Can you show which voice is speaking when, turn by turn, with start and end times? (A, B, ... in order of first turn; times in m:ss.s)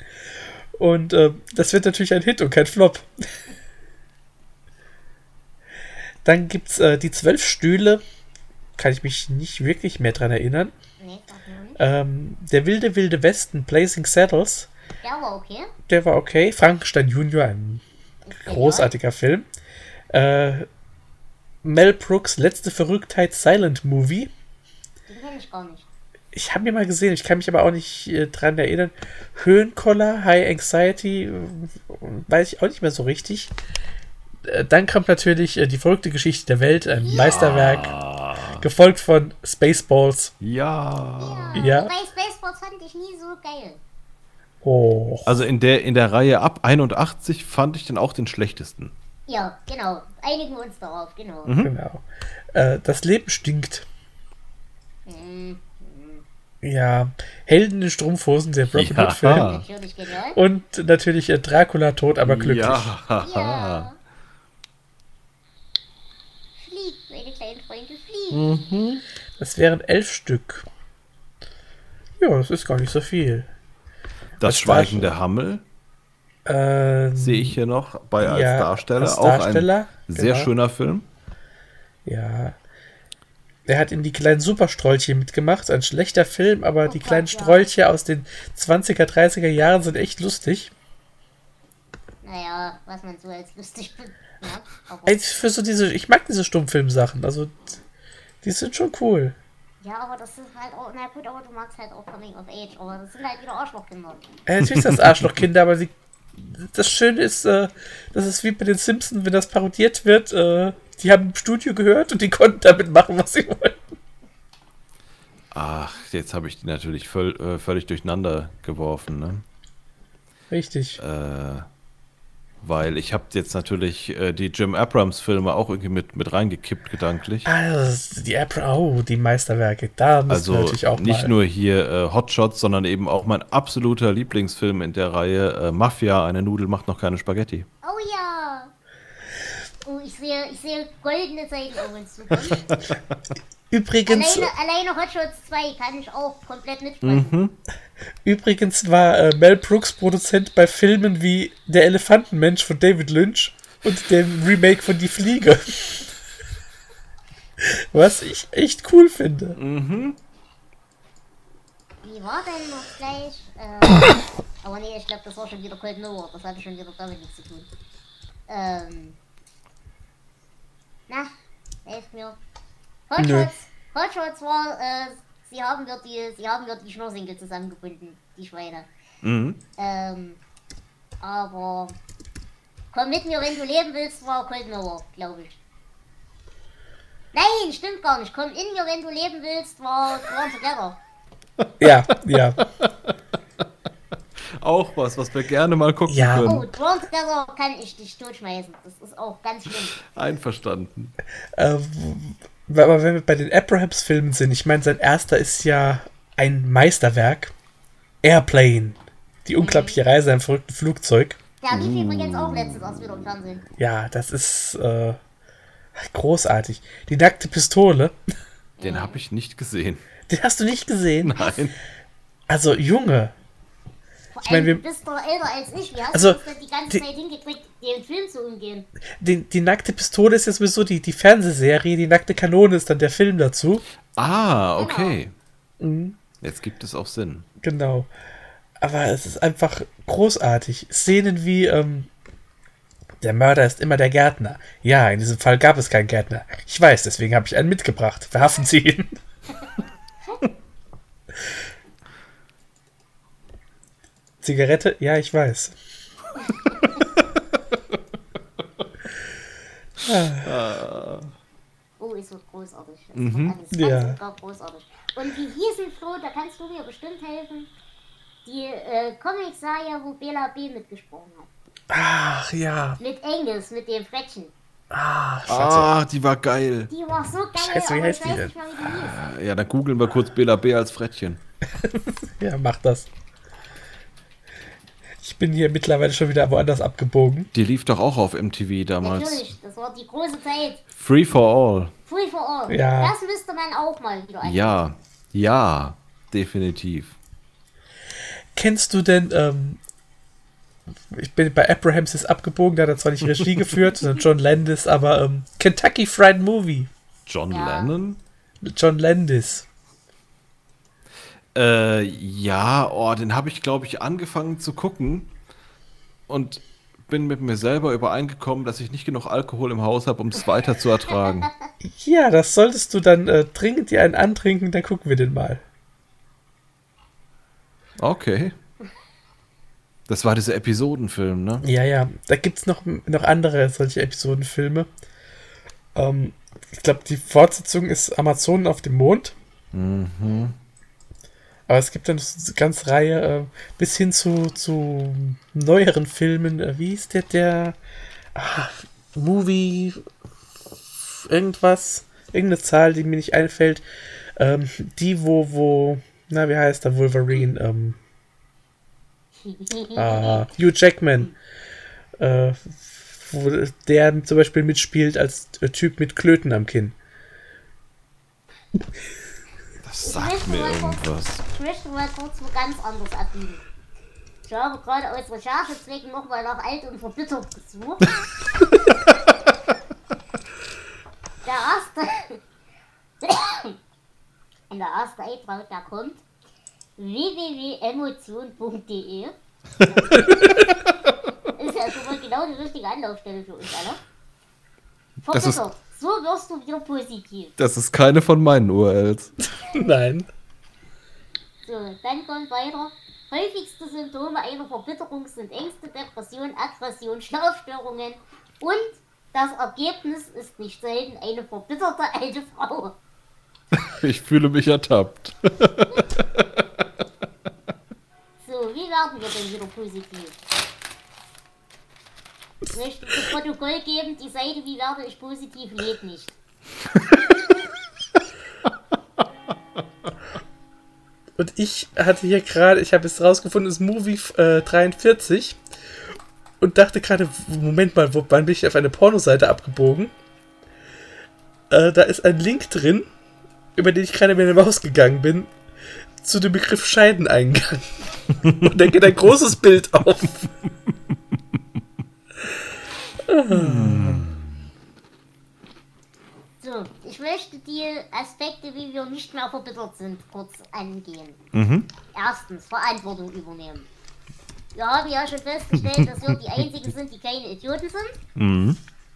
0:00.8-0:03.1 A
0:06.2-0:08.0 A
0:08.8-0:10.7 A
0:11.0-0:11.8 B
0:11.8-0:14.7 A
0:15.0-0:15.7 B
0:15.9-0:17.8 A
0:18.3-0:18.9 B
0:18.4-0:19.5 A
0:20.1-0:20.7 A
0:21.6-0:24.3 A
0:25.1-0:25.9 B
0:26.3-0:33.5 A
0:34.5-0:38.0 A
0:37.0-0:37.6 B
0:37.1-0:38.6 C
0:38.6-0:40.3 A
0:40.4-0:41.6 C
0:41.2-0:43.8 B
0:41.6-0:41.9 A
0:44.6-0:45.4 A
0:45.3-0:48.9 C
0:49.3-0:51.5 B
0:51.5-0:51.7 C
0:51.6-0:53.9 A
0:55.1-0:56.2 B
0:56.6-0:59.5 A
0:58.7-0:59.6 C
0:59.4-1:00.4 B
1:00.4-1:02.9 A
1:02.2-1:03.9 C
1:03.2-1:04.0 B
1:06.6-1:08.5 B
1:08.3-1:09.0 C
1:09.4-1:10.7 A
1:12.2-1:13.5 A
1:14.4-1:15.6 C
1:14.4-1:15.1 A
1:16.5-1:17.6 A
1:17.2-1:21.1 C
1:18.2-1:20.5 A
1:22.1-1:22.6 A
1:23.7-1:30.7 A
1:26.9-1:27.7 B
1:32.2-1:35.2 B
1:35.1-1:37.8 A
1:38.4-1:39.4 A
1:39.8-1:44.2 B
1:44.5-1:53.8 A
1:55.5-1:59.4 C
2:00.5-2:01.0 A
2:01.0-2:01.7 C
2:02.6-2:07.5 C
2:07.4-2:11.3 A
2:10.3-2:17.7 C
2:17.8-2:18.7 B
2:19.8-2:22.6 B
2:22.5-2:23.0 C
2:23.7-2:24.5 A
2:24.1-2:27.3 B
2:27.0-2:27.5 C
2:28.2-2:36.1 A
2:37.6-2:39.6 A
2:39.6-2:40.2 C
2:42.0-2:47.7 B
2:48.5-2:49.2 B
2:51.9-2:52.4 B
2:53.1-2:58.9 B
2:53.2-2:53.5 A
2:59.2-2:59.6 C
2:59.8-3:00.4 B
3:01.2-3:02.0 B
3:02.9-3:05.6 B
3:07.3-3:11.0 B
3:11.6-3:12.0 C
3:11.8-3:12.6 A
3:12.6-3:12.9 C
3:14.6-3:16.7 C
3:16.1-3:16.6 A
3:16.4-3:20.0 B
3:20.0-3:21.1 C
3:21.6-3:27.5 A
3:28.2-3:31.4 A
3:29.6-3:30.0 B
3:31.6-3:33.6 B
3:31.7-3:32.8 C
3:33.8-3:35.2 A
3:36.0-3:38.2 A
3:38.8-3:39.2 B
3:38.8-3:40.0 C
3:40.3-3:41.5 A
3:41.2-3:41.8 C
3:42.5-3:43.3 A
3:44.3-3:48.9 B
3:44.5-3:44.8 A
3:46.1-3:47.0 A
3:49.2-3:53.8 A
3:54.2-3:55.3 C
3:54.8-3:55.2 B
3:55.8-3:56.2 A
3:56.4-3:57.4 C
3:57.6-3:58.1 A
3:58.8-4:02.1 A
4:03.2-4:09.2 A
4:14.4-4:15.8 A
4:16.7-4:17.0 B
4:20.0-4:20.5 A
4:20.4-4:21.3 C
4:22.0-4:27.7 B
4:23.2-4:23.6 C
4:23.7-4:24.2 A
4:28.4-4:31.5 B
4:31.9-4:33.0 A
4:33.0-4:34.5 B
4:34.9-4:35.9 A
4:35.5-4:36.9 C
4:36.9-4:39.2 B
4:37.6-4:38.5 A
4:38.9-4:41.4 C
4:41.8-4:43.1 A
4:45.2-4:47.5 A
4:47.5-4:49.5 C
4:49.0-4:50.8 B
4:50.9-4:51.9 C
4:52.1-4:54.8 B
4:52.7-4:53.1 A
4:54.4-4:57.2 C
4:58.6-4:59.8 A
5:01.1-5:06.9 A
5:07.3-5:08.2 C
5:07.5-5:07.9 B
5:08.6-5:09.7 A
5:11.6-5:15.3 C
5:16.3-5:21.5 C
5:21.3-5:21.7 B
5:21.8-5:25.6 A
5:28.0-5:28.5 C
5:30.1-5:31.6 C
5:31.6-5:34.9 A
5:36.0-5:39.4 A
5:39.7-5:40.6 C
5:41.7-5:47.8 A
5:48.4-5:50.0 A
5:51.0-5:53.8 A
5:54.4-5:58.0 A
5:59.4-6:00.5 B
6:00.0-6:01.3 A
6:02.2-6:07.0 A
6:09.8-6:11.4 C
6:10.0-6:13.6 B
6:14.4-6:18.2 B
6:21.4-6:22.4 B
6:23.2-6:23.8 B
6:24.7-6:26.2 B
6:27.0-6:29.3 B
6:29.9-6:30.2 B
6:30.1-6:30.6 A
6:31.6-6:34.0 B
6:35.3-6:37.5 B
6:35.3-6:35.6 C
6:37.6-6:39.3 C
6:39.7-6:40.3 A
6:41.6-6:53.0 B
6:53.8-6:56.2 C
6:58.4-7:00.4 B
7:02.7-7:06.4 B
7:11.4-7:15.6 A
7:16.6-7:20.1 A
7:21.7-7:23.1 A
7:23.8-7:25.5 A
7:26.2-7:27.9 A
7:28.5-7:30.5 A
7:33.2-7:34.2 A
7:33.5-7:34.5 C
7:36.6-7:41.4 B
7:41.5-7:41.9 C
7:42.1-7:43.9 B
7:44.8-7:48.2 B
7:45.8-7:46.4 C
7:48.4-7:48.8 C